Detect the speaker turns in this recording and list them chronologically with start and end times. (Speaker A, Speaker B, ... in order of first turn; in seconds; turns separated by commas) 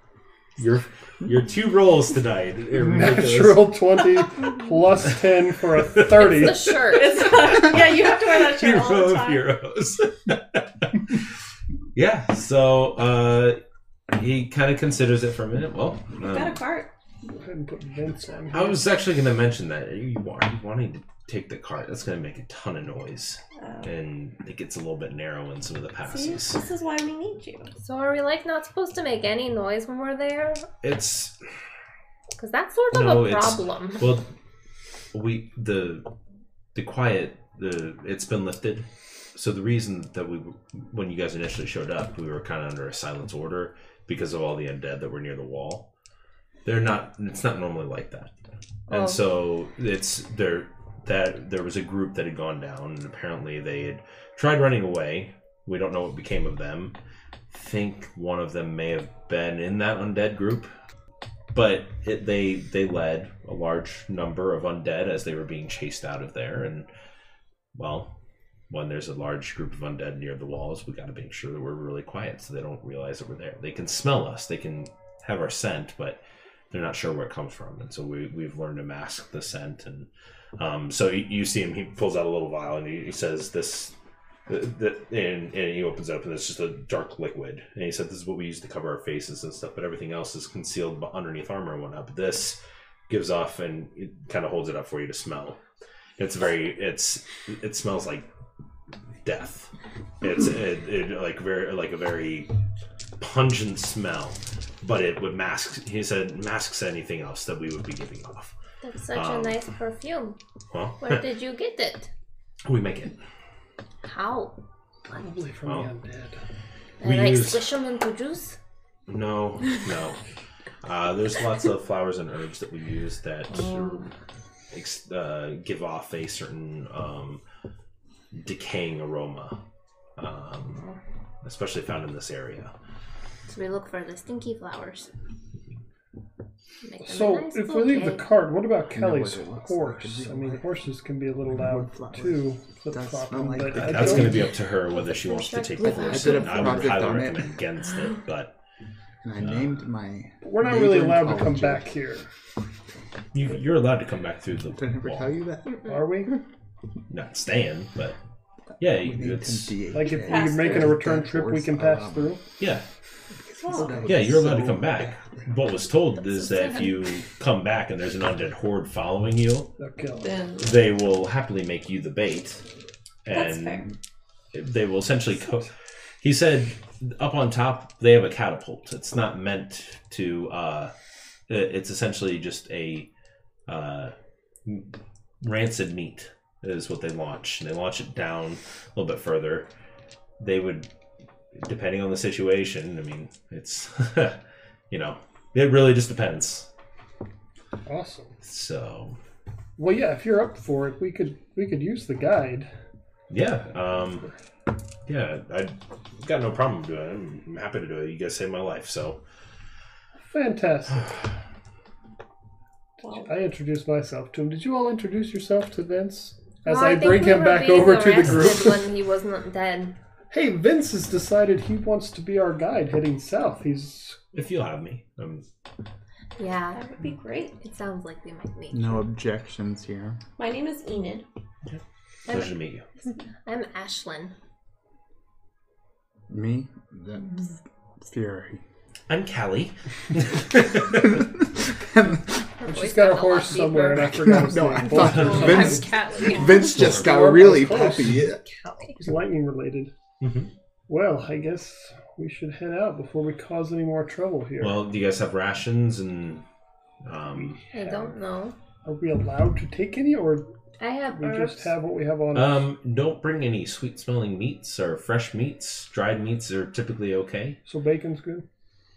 Speaker A: 0.6-4.2, Speaker B: 2.7-6.7, Speaker A: 5.9-11.2, Speaker C: 6.2-7.3, Speaker D: 6.7-9.5, Speaker A: 11.9-13.6, Speaker A: 14.1-16.6, Speaker D: 16.2-16.9, Speaker B: 17.3-18.8, Speaker A: 18.5-26.6, Speaker D: 23.6-23.9, Speaker D: 26.0-27.7, Speaker C: 27.8-30.7, Speaker A: 30.8-31.4, Speaker C: 32.4-34.1, Speaker A: 32.9-34.3, Speaker A: 35.1-36.1, Speaker A: 36.8-45.9, Speaker A: 46.6-48.3, Speaker C: 48.9-49.2, Speaker A: 48.9-57.0, Speaker A: 57.5-60.7, Speaker A: 61.5-66.9, Speaker A: 67.8-68.2, Speaker A: 68.7-83.9, Speaker A: 84.5-95.6, Speaker A: 96.2-98.3, Speaker A: 99.2-99.7, Speaker A: 100.2-102.5, Speaker A: 103.2-108.5, Speaker C: 108.8-110.4, Speaker A: 109.1-109.6, Speaker A: 110.7-111.2, Speaker C: 111.0-112.1, Speaker A: 112.7-113.2, Speaker C: 114.0-114.6, Speaker B: 115.1-116.4, Speaker A: 115.7-115.9, Speaker C: 117.0-118.6, Speaker A: 117.0-117.7, Speaker A: 119.1-120.2, Speaker A: 120.8-124.1, Speaker C: 123.5-124.1, Speaker A: 124.7-127.4, Speaker A: 128.3-129.6, Speaker A: 130.2-130.8, Speaker A: 131.4-132.7, Speaker C: 133.5-135.1, Speaker C: 136.8-138.3, Speaker B: 137.1-144.5, Speaker E: 138.9-140.8, Speaker E: 141.5-144.5, Speaker A: 143.8-148.6, Speaker C: 144.9-146.9, Speaker E: 146.0-147.5, Speaker E: 149.2-151.9, Speaker A: 149.4-149.9, Speaker B: 150.4-152.3, Speaker A: 153.3-155.3, Speaker E: 154.8-155.8, Speaker C: 155.7-156.4, Speaker B: 155.8-156.3, Speaker A: 157.1-158.2, Speaker A: 158.8-159.8, Speaker E: 158.8-162.4, Speaker B: 159.9-162.4, Speaker D: 159.9-161.0, Speaker E: 163.4-165.5, Speaker D: 163.6-164.1, Speaker A: 164.1-169.7, Speaker C: 166.2-167.1, Speaker B: 169.8-170.3, Speaker D: 170.2-170.7, Speaker A: 170.6-172.6, Speaker A: 173.2-173.9, Speaker D: 173.3-173.9, Speaker A: 174.5-175.7, Speaker A: 176.2-180.9, Speaker A: 181.5-183.1, Speaker A: 183.7-184.1, Speaker A: 184.7-189.7, Speaker A: 190.4-190.9, Speaker A: 191.5-196.7, Speaker B: 197.9-198.3, Speaker A: 198.4-199.2, Speaker B: 199.8-202.7, Speaker A: 203.3-204.3, Speaker A: 205.1-209.2, Speaker B: 210.3-211.1, Speaker D: 213.0-213.3, Speaker B: 213.1-218.8, Speaker C: 216.7-220.0, Speaker B: 220.3-224.2, Speaker A: 224.3-225.4, Speaker C: 226.4-226.8, Speaker D: 226.7-227.6, Speaker C: 227.6-229.1, Speaker E: 228.7-230.2, Speaker D: 230.4-231.3, Speaker A: 231.7-232.8, Speaker C: 232.3-232.5, Speaker C: 233.4-234.3, Speaker E: 236.3-238.6, Speaker A: 239.1-241.2, Speaker E: 241.2-242.3, Speaker C: 242.6-244.3, Speaker B: 242.7-248.4, Speaker E: 244.0-248.4, Speaker A: 245.0-245.5, Speaker D: 245.0-246.3, Speaker C: 245.2-246.7, Speaker A: 246.7-247.1, Speaker C: 248.6-249.0, Speaker B: 249.0-249.9, Speaker A: 250.2-250.5, Speaker B: 250.9-254.8, Speaker A: 254.6-256.4, Speaker A: 257.1-257.6, Speaker B: 257.3-258.2, Speaker C: 257.7-258.6, Speaker B: 258.9-260.5, Speaker C: 260.8-261.7, Speaker B: 261.1-262.7, Speaker A: 262.3-267.6, Speaker B: 267.7-268.4